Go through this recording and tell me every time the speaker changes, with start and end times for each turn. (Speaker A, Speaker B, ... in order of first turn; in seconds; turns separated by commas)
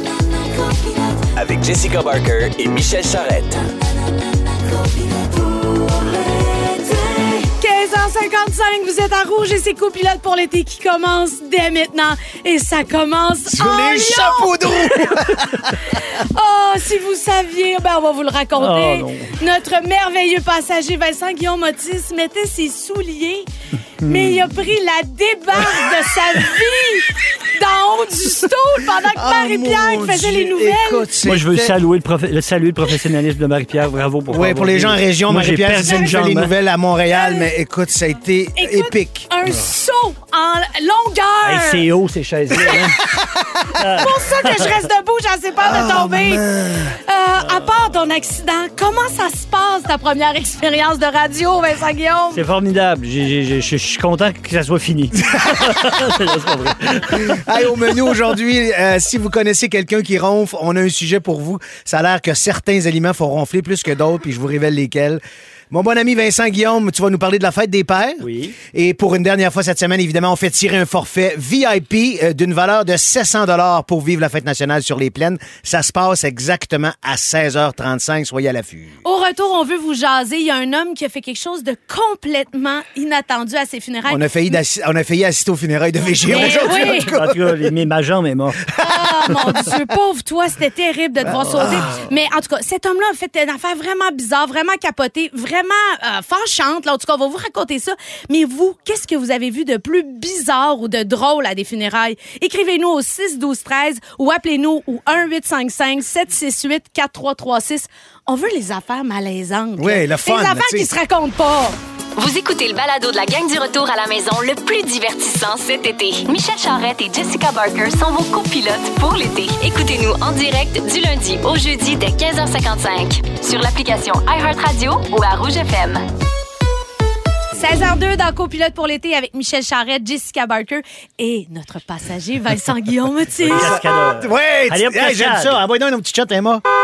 Speaker A: 1.4-3.6, Speaker B: 7.1-15.3, Speaker C: 13.5-15.9, Speaker B: 15.9-23.5, Speaker D: 18.6-19.4, Speaker B: 24.0-31.1, Speaker D: 24.0-24.5, Speaker C: 29.1-31.8, Speaker D: 31.2-36.5, Speaker C: 34.3-39.3, Speaker B: 37.2-37.5, Speaker B: 38.6-41.9, Speaker D: 41.4-43.0, Speaker B: 42.6-42.8, Speaker D: 43.8-44.6, Speaker B: 43.9-52.4, Speaker C: 45.6-47.0, Speaker D: 52.3-57.4, Speaker C: 55.3-56.2, Speaker C: 57.0-79.0, Speaker D: 68.2-68.6, Speaker B: 79.0-84.5, Speaker C: 84.1-87.7, Speaker D: 86.2-88.7, Speaker B: 86.3-87.1, Speaker C: 88.8-89.7, Speaker B: 88.8-111.8, Speaker D: 91.3-92.0, Speaker C: 91.3-91.9, Speaker C: 109.8-110.9, Speaker E: 112.2-126.0, Speaker B: 127.5-133.8, Speaker D: 133.4-135.6, Speaker C: 133.6-136.6